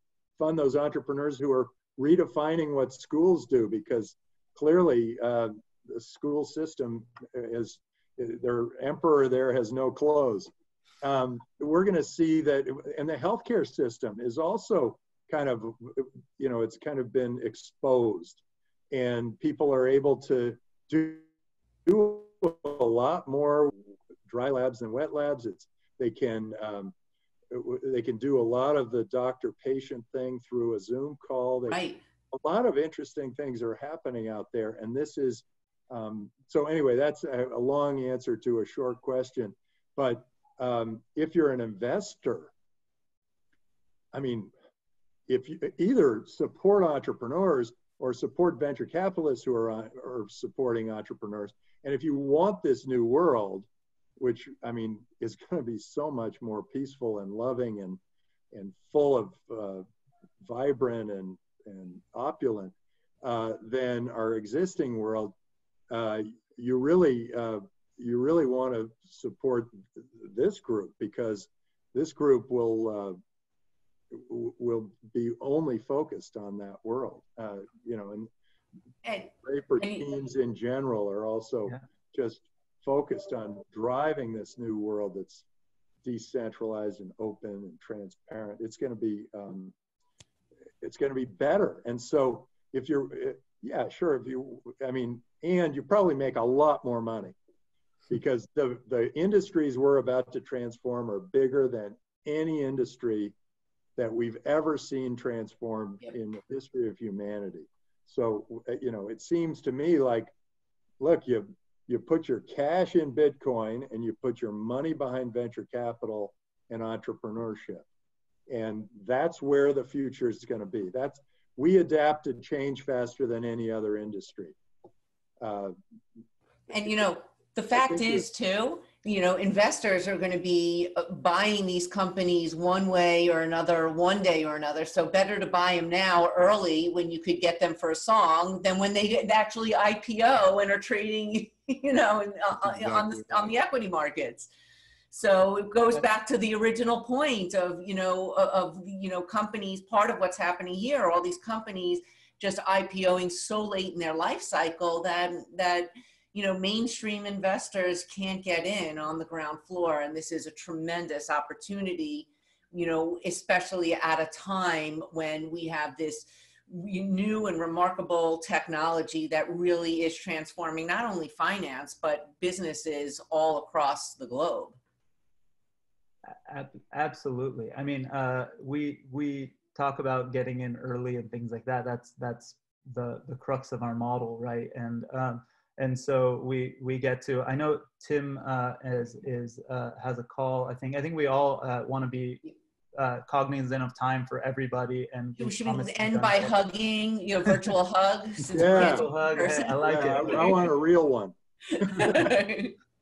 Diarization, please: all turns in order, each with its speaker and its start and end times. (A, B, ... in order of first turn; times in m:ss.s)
0:00.4-0:10.5 A
0:11.0-0:21.2 A
0:21.8-0:26.9 A
0:27.5-0:42.5 A
0:31.7-0:32.0 B
0:44.1-0:44.5 A
0:45.3-0:58.0 A
0:58.5-0:59.8 A
1:00.4-1:05.4 A
1:05.9-1:13.2 A
1:14.1-1:18.3 A
1:19.0-1:20.1 B
1:19.4-1:25.4 A
1:26.0-1:29.7 A
1:30.8-1:37.4 A
1:38.1-1:43.3 A
1:44.0-1:50.3 A
1:51.0-1:57.8 A
1:58.5-2:04.6 A
2:05.4-2:05.8 A
2:06.7-2:24.5 B
2:07.8-2:08.2 A
2:25.1-2:54.8 B
2:56.5-3:12.4 C
3:13.0-3:16.6 C
3:15.4-3:20.6 B
3:18.5-3:20.6 C
3:18.5-3:19.1 A
3:19.8-3:22.3 A
3:21.7-3:22.7 B